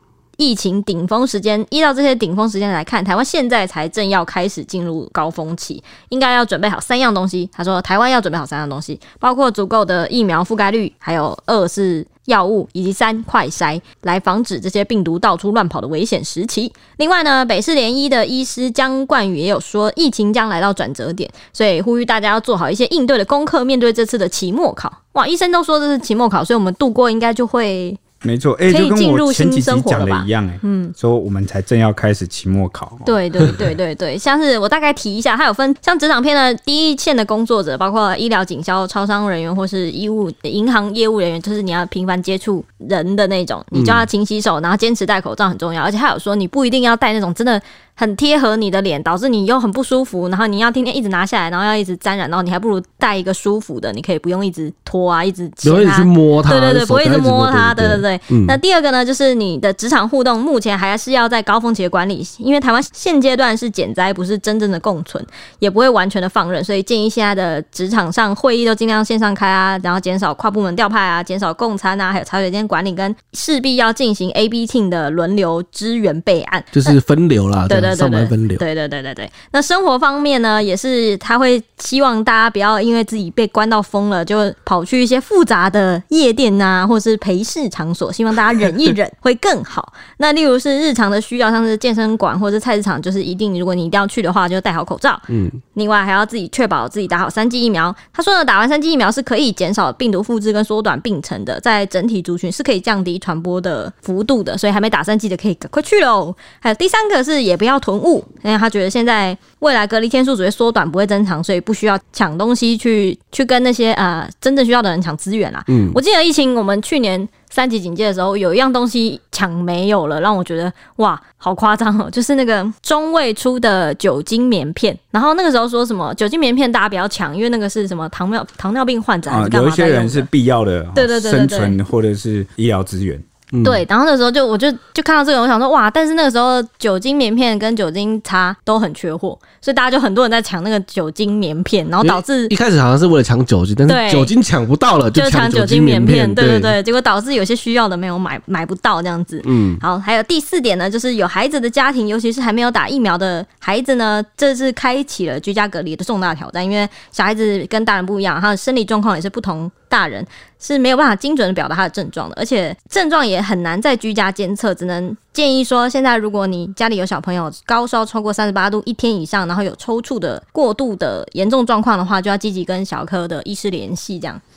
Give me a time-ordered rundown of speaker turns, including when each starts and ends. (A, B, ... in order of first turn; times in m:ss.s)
0:00.4-0:28.0 A
0:28.2-0:33.6 B
0:28.7-0:30.9 A
0:33.0-1:17.0 A
0:43.7-0:44.0 C
0:55.6-0:58.6 C
1:16.7-1:18.6 C
1:17.7-2:10.3 A
1:35.3-1:35.6 C
1:55.7-1:56.0 C
2:09.3-2:13.2 B
2:10.9-2:11.8 A
2:13.5-2:13.8 C
2:13.6-2:22.5 A
2:22.0-2:26.7 C
2:23.9-2:24.3 A
2:25.1-2:54.4 A
2:29.4-2:29.8 C